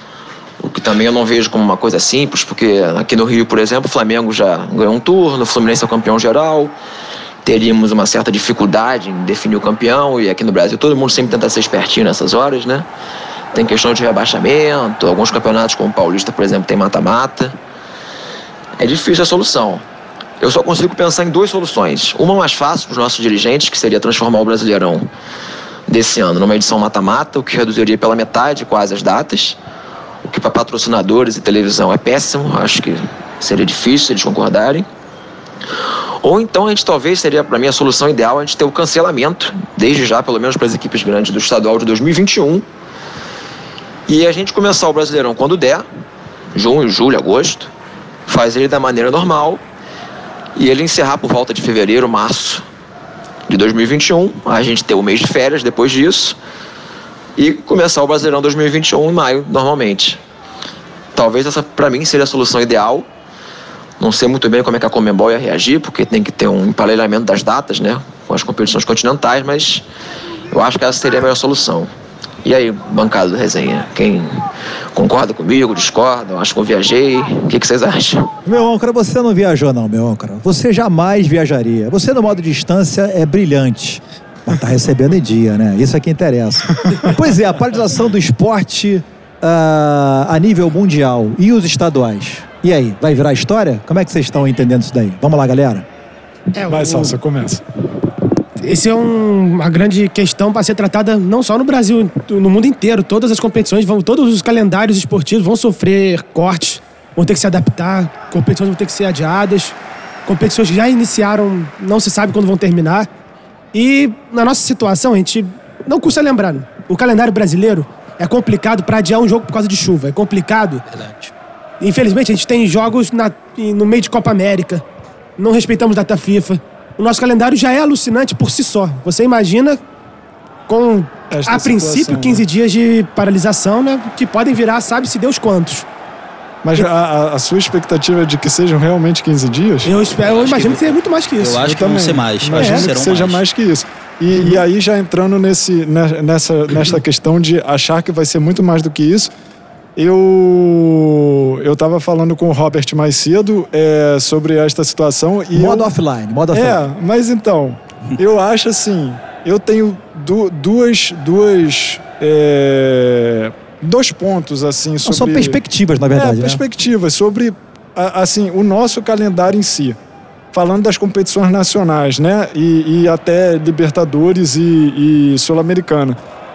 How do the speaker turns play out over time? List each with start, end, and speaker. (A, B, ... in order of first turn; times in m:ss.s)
0:00.6-0:06.7 A
0:07.4-0:12.9 A
0:13.5-0:17.5 A
0:18.8-0:19.8 A
0:20.4-0:25.1 A
0:25.9-0:29.6 A
0:30.2-0:34.9 A
0:36.2-0:42.6 A
0:44.1-0:45.8 A
0:46.5-0:47.7 A
0:48.3-0:49.6 A
0:50.6-0:52.6 A
0:53.5-0:56.4 A
0:57.4-1:00.2 A
1:01.1-1:03.1 A
1:04.0-1:09.8 A
1:10.5-1:11.9 A
1:12.4-1:18.3 A
1:18.4-1:35.8 B
1:36.5-1:37.2 C
1:36.6-1:37.6 D
1:38.6-1:53.1 C
1:53.7-2:00.8 C
2:00.9-2:01.3 E
2:01.8-2:04.8 C
2:05.4-2:09.8 C
2:10.7-2:15.9 C
2:11.3-2:12.4 D
2:16.6-2:19.9 D
2:19.8-2:21.6 C
2:20.1-2:23.4 E
2:21.6-2:29.3 D
2:22.5-2:22.9 C
2:30.0-2:35.9 D
2:35.5-2:36.8 B
2:36.5-2:45.6 D
2:45.0-2:46.6 B
2:46.1-2:50.0 D
2:50.5-2:56.2 D